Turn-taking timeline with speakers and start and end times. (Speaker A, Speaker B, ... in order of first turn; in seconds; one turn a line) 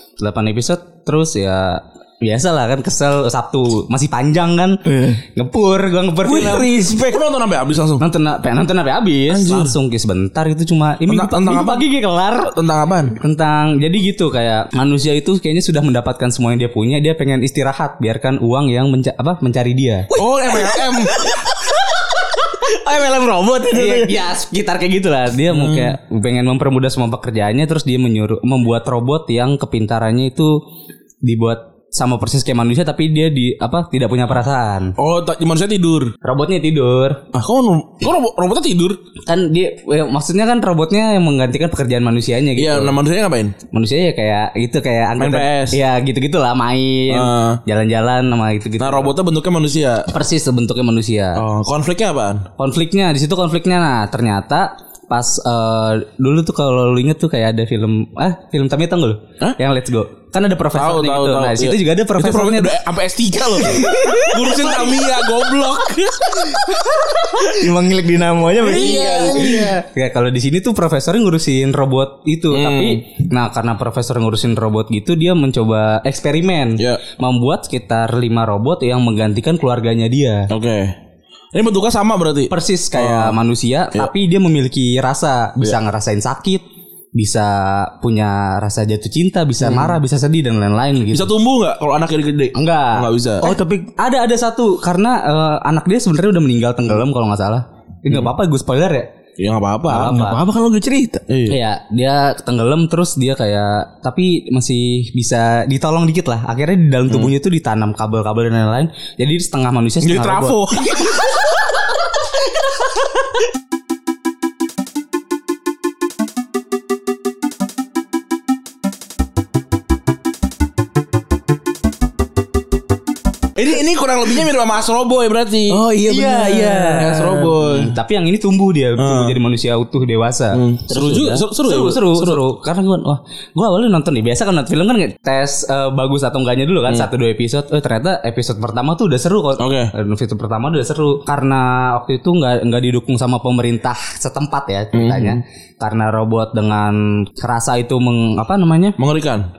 Speaker A: 0.2-4.8
Speaker B: 4.8-5.2
Speaker A: 5.3-6.7
Speaker B: 6.2-7.3
Speaker C: 7.0-8.0
Speaker A: 8.0-12.5
Speaker C: 9.3-9.7
Speaker C: 11.1-11.8
Speaker C: 12.5-13.2
Speaker A: 13.2-20.1
Speaker B: 20.1-24.2
Speaker C: 20.2-21.2
Speaker A: 23.7-30.6
Speaker C: 25.5-25.9
Speaker A: 31.2-35.0
Speaker C: 35.0-36.1
Speaker A: 36.2-37.2
Speaker C: 37.3-39.0
Speaker A: 39.3-43.0
Speaker C: 42.6-43.5
Speaker A: 43.7-49.1
Speaker C: 45.2-45.8
Speaker C: 47.1-47.6
Speaker C: 48.8-50.1
Speaker A: 50.1-51.4
Speaker C: 51.4-52.5
Speaker A: 52.6-62.8
Speaker C: 60.8-67.5
Speaker B: 63.6-64.9
Speaker B: 67.4-69.7
Speaker A: 68.6-80.5
Speaker C: 68.7-69.7
Speaker C: 72.5-73.0
Speaker C: 80.5-81.0
Speaker C: 81.5-83.4
Speaker A: 82.5-91.3
Speaker C: 89.6-90.0
Speaker C: 91.1-93.5
Speaker A: 92.5-99.1
Speaker B: 93.4-93.9
Speaker C: 99.4-100.2
Speaker A: 99.9-100.4
Speaker B: 100.0-101.2
Speaker C: 101.3-101.6
Speaker A: 101.5-110.6
Speaker C: 110.0-111.2
Speaker C: 123.6-125.8
Speaker B: 125.7-127.5
Speaker A: 126.1-149.0
Speaker C: 127.0-127.9
Speaker C: 129.0-129.4
Speaker C: 130.5-132.4
Speaker C: 139.6-139.9
Speaker C: 144.9-145.4
Speaker C: 149.0-149.5